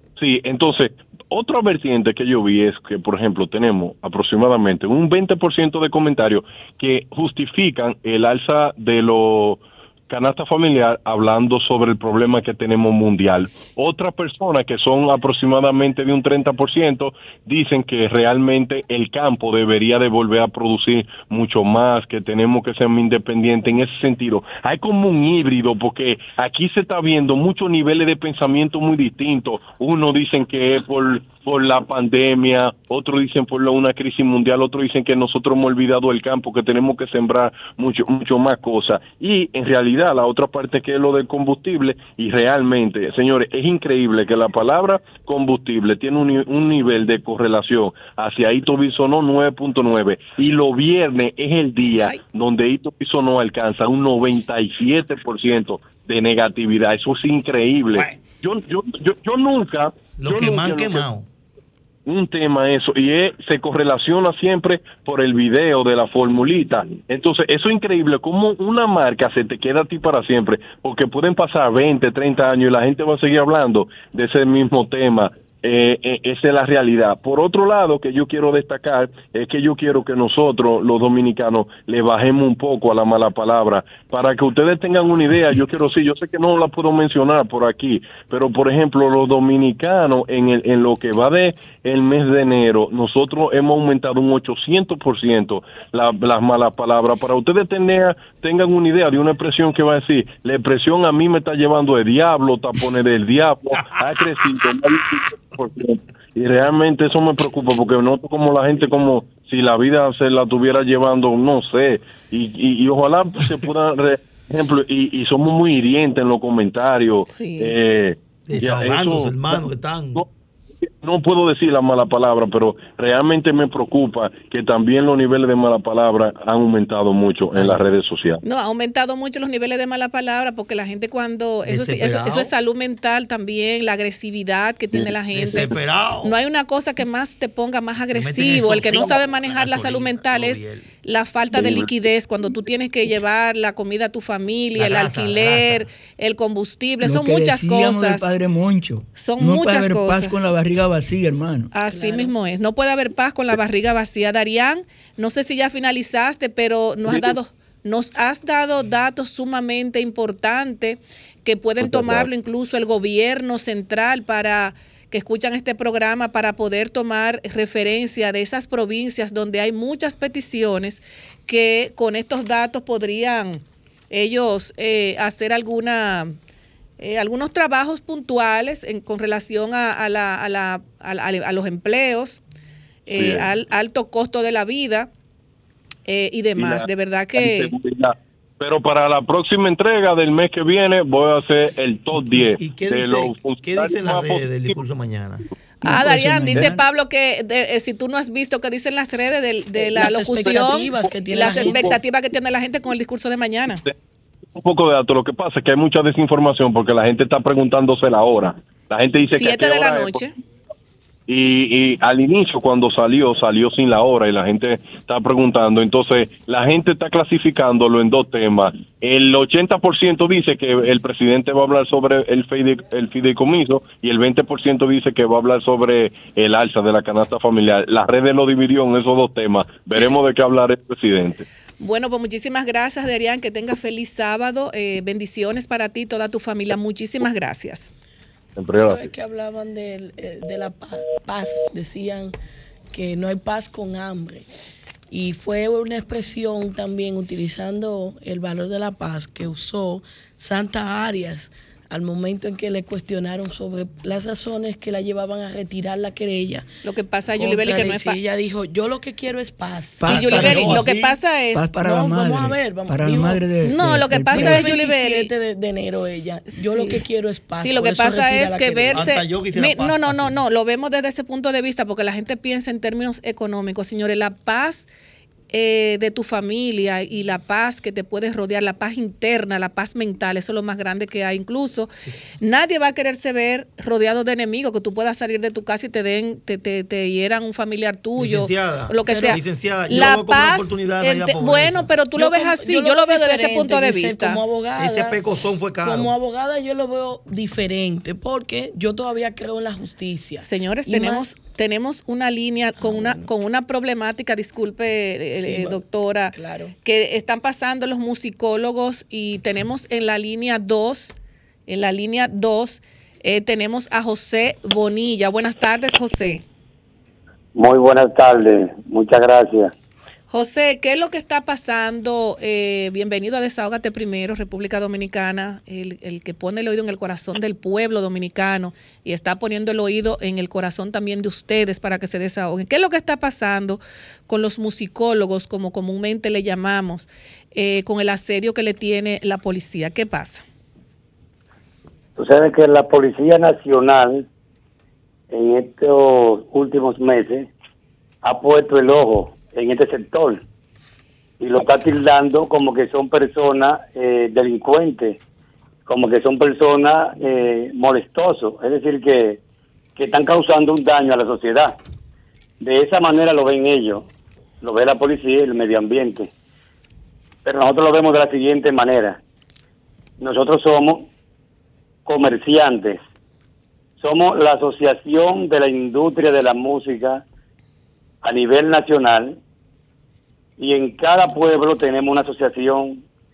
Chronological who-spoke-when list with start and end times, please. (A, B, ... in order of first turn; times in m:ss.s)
0:00.2-1:01.1 A
1:00.2-1:01.2 B
1:02.0-2:00.3 A
1:57.3-1:57.7 C
1:58.5-2:00.2 B
2:00.8-2:08.4 A
2:07.5-2:07.8 B
2:08.4-2:28.2 C
2:11.6-2:12.5 B
2:15.3-2:16.3 B
2:18.1-2:20.9 B
2:21.6-2:21.9 A
2:24.8-2:25.9 B
2:27.0-2:31.7 D
2:29.2-2:30.3 C
2:31.7-2:56.3 C
2:31.9-2:32.3 E
2:37.1-2:37.4 A
2:41.8-2:42.3 A
2:57.0-3:02.4 C
3:03.1-3:05.1 C
3:03.1-3:03.5 A
3:06.1-3:07.7 C
3:06.6-3:14.8 A
3:12.2-3:15.4 B
3:15.8-3:16.8 D
3:15.8-3:23.8 C
3:16.5-3:16.8 A
3:19.8-3:22.0 E
3:21.4-3:21.9 A
3:24.5-3:30.2 A
3:29.3-3:30.3 C
3:31.3-3:51.4 A
3:51.8-3:57.9 C
3:58.6-3:59.1 A
3:58.7-4:02.3 E
4:02.9-4:04.5 E
4:05.1-4:16.6 E
4:16.8-4:18.2 C
4:17.4-4:20.6 E
4:20.0-4:20.8 D
4:20.1-4:21.1 B
4:20.1-4:21.6 C
4:21.5-4:24.7 D
4:21.8-4:23.6 E
4:23.6-4:25.3 C
4:24.3-4:29.2 E
4:26.5-4:27.0 C
4:27.6-4:34.9 C
4:28.9-4:30.3 B
4:35.5-4:54.4 C
4:48.2-4:51.9 B
4:49.0-4:49.4 E
4:52.2-4:55.2 E
4:54.8-4:56.1 B
4:55.8-5:01.3 E
5:00.4-5:11.1 C
5:02.8-5:03.3 E
5:05.3-5:06.7 E
5:11.7-5:16.4 C
5:17.6-5:19.7 F
5:20.3-5:40.4 C
5:42.2-5:44.2 F
5:45.3-5:47.5 F
5:48.2-5:50.4 F
5:51.4-5:55.2 F
5:55.9-5:59.4 F
6:00.0-6:01.8 F
6:02.6-6:04.0 F
6:04.6-6:06.3 F
6:07.4-6:09.2 F
6:10.2-6:11.1 F
6:12.0-6:13.0 F
6:14.0-6:17.2 F
6:18.2-6:19.4 F
6:20.6-6:23.0 F